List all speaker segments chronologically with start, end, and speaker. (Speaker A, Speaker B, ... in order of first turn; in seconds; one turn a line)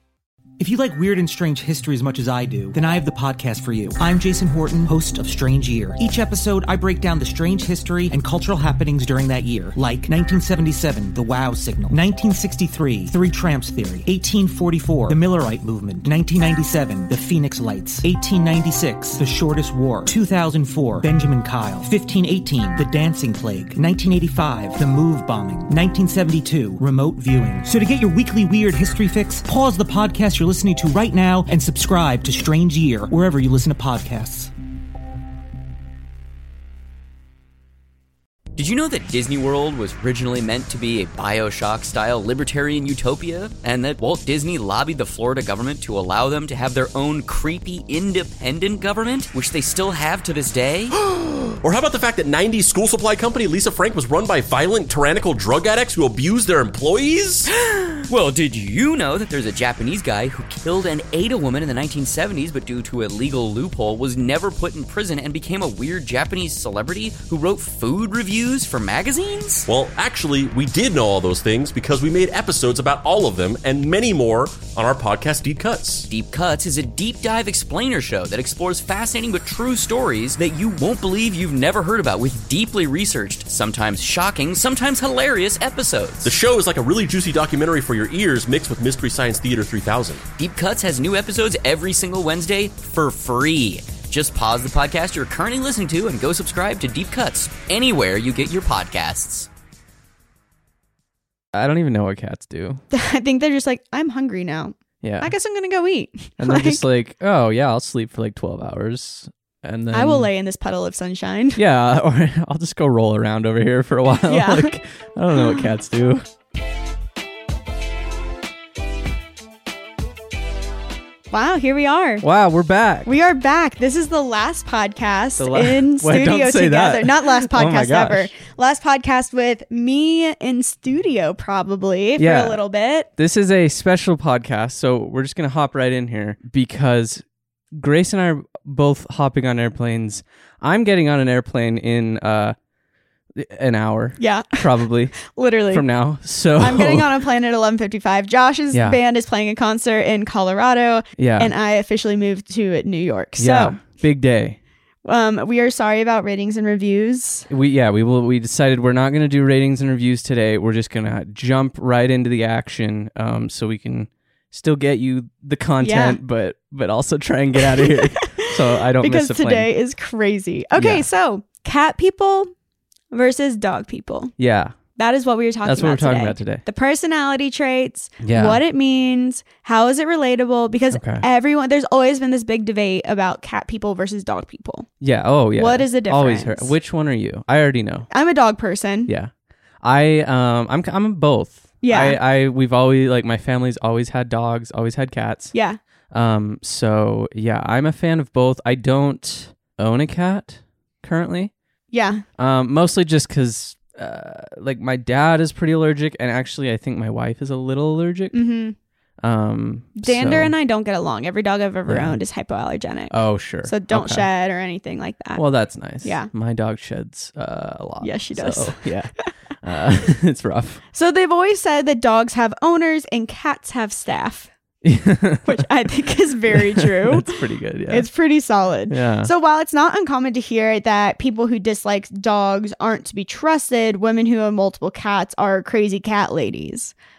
Speaker A: 0.6-34.5
Speaker B: 38.5-50.9
Speaker C: 51.6-57.5
Speaker B: 57.7-69.7
Speaker C: 69.7-76.1
Speaker B: 76.1-86.3
Speaker C: 86.2-90.2
Speaker B: 90.4-99.5
Speaker D: 101.5-102.8
Speaker E: 102.9-106.8
Speaker D: 105.0-105.3
Speaker D: 106.4-110.3
Speaker E: 109.9-111.6
Speaker D: 111.5-116.2
Speaker E: 114.3-114.7
Speaker E: 115.4-115.7
Speaker E: 121.3-122.2
Speaker D: 122.2-123.1
Speaker E: 123.0-133.1
Speaker D: 125.4-128.3
Speaker D: 132.2-132.6
Speaker D: 133.2-142.6
Speaker D: 143.3-147.2
Speaker E: 144.2-144.6
Speaker E: 145.2-145.8
Speaker E: 146.6-153.8
Speaker D: 148.7-149.0
Speaker D: 151.2-151.5
Speaker D: 153.4-154.6
Speaker E: 155.0-157.5
Speaker D: 157.5-169.7
Speaker E: 165.8-166.2
Speaker E: 167.7-172.5
Speaker D: 170.8-171.0
Speaker E: 173.1-174.3
Speaker D: 174.4-174.8
Speaker E: 174.9-184.9
Speaker D: 175.6-176.6
Speaker D: 178.2-178.6
Speaker D: 180.9-181.2
Speaker D: 185.0-188.1
Speaker E: 185.6-186.7
Speaker E: 188.1-189.1
Speaker D: 189.8-195.5
Speaker E: 191.8-192.2
Speaker D: 196.1-201.5
Speaker E: 201.9-202.2
Speaker D: 202.4-208.4
Speaker E: 208.3-208.8
Speaker D: 209.2-210.5
Speaker E: 210.0-215.4
Speaker D: 211.9-212.2
Speaker D: 213.1-214.3
Speaker D: 215.3-220.8
Speaker E: 216.0-216.3
Speaker E: 218.0-218.9
Speaker E: 220.9-224.5
Speaker D: 224.8-225.6
Speaker E: 225.4-227.4
Speaker D: 226.5-228.1
Speaker E: 227.9-236.9
Speaker D: 228.9-229.3